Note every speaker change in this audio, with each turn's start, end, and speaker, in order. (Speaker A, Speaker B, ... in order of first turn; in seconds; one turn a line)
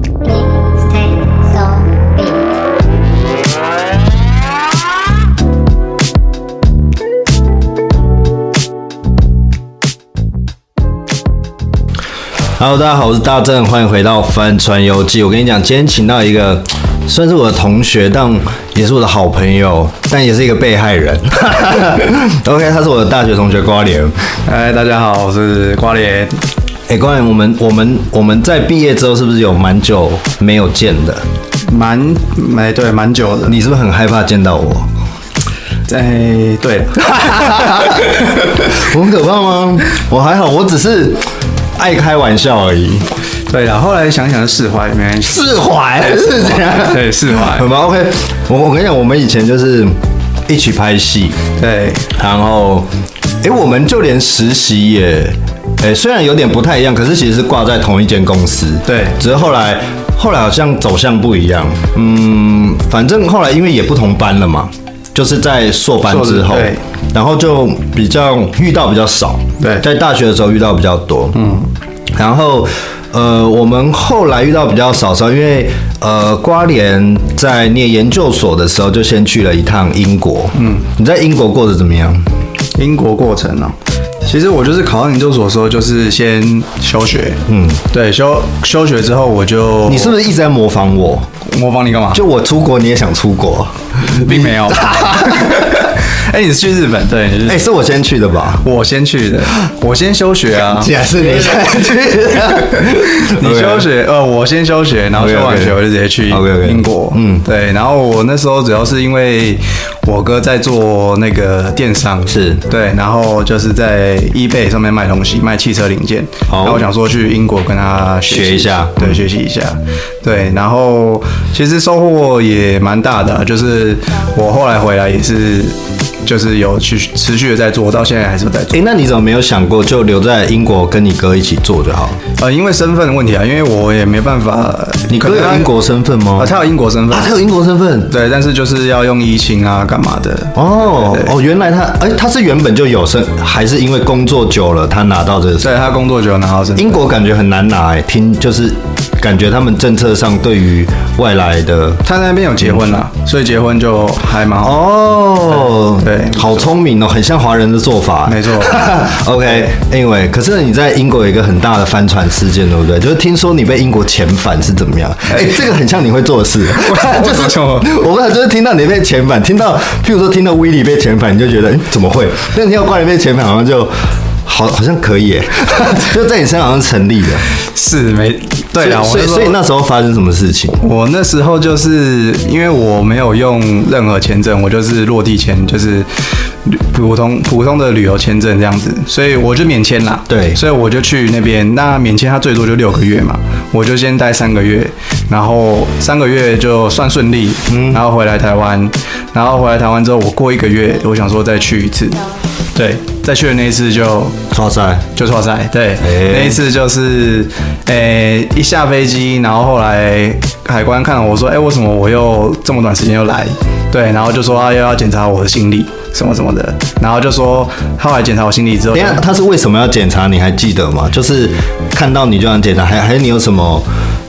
Speaker A: 0.2-2.5
Speaker B: 12.6-24.1
Speaker C: 24.4-26.4
Speaker B: 26.9-31.2
Speaker C: 31.7-33.6
Speaker B: 33.5-34.9
Speaker C: 35.9-38.6
Speaker B: 37.0-41.2
Speaker B: 41.8-43.0
Speaker C: 43.5-45.5
Speaker B: 45.2-51.4
Speaker C: 46.0-47.7
Speaker C: 51.6-52.1
Speaker B: 52.1-52.9
Speaker B: 53.4-71.4
Speaker C: 58.8-59.2
Speaker C: 66.0-66.8
Speaker C: 69.6-69.8
Speaker C: 71.3-71.7
Speaker B: 72.1-82.2
Speaker C: 80.5-80.8
Speaker C: 82.8-90.2
Speaker B: 87.5-87.8
Speaker B: 89.8-91.3
Speaker C: 91.5-92.2
Speaker B: 92.1-95.9
Speaker C: 94.1-97.6
Speaker B: 97.5-98.6
Speaker C: 98.6-100.9
Speaker B: 100.7-103.9
Speaker C: 102.7-128.8
Speaker B: 105.1-107.4
Speaker B: 112.3-112.6
Speaker B: 116.5-116.8
Speaker B: 118.2-119.2
Speaker B: 128.7-132.2
Speaker C: 132.4-135.7
Speaker B: 135.1-136.5
Speaker C: 136.4-137.3
Speaker B: 137.1-138.1
Speaker C: 138.1-141.3
Speaker B: 140.5-145.8
Speaker C: 145.6-147.0
Speaker B: 146.8-152.0
Speaker C: 152.0-154.8
Speaker B: 154.6-173.9
Speaker C: 155.5-156.7
Speaker C: 158.2-158.9
Speaker C: 165.3-165.6
Speaker C: 166.7-167.9
Speaker B: 174.4-177.4
Speaker C: 177.6-179.6
Speaker B: 178.8-180.8
Speaker C: 180.8-186.1
Speaker C: 186.7-202.2
Speaker B: 190.3-190.6
Speaker B: 197.7-198.0
Speaker C: 202.7-204.3
Speaker B: 204.5-205.1
Speaker C: 205.1-219.2
Speaker B: 206.0-206.6
Speaker B: 218.9-223.8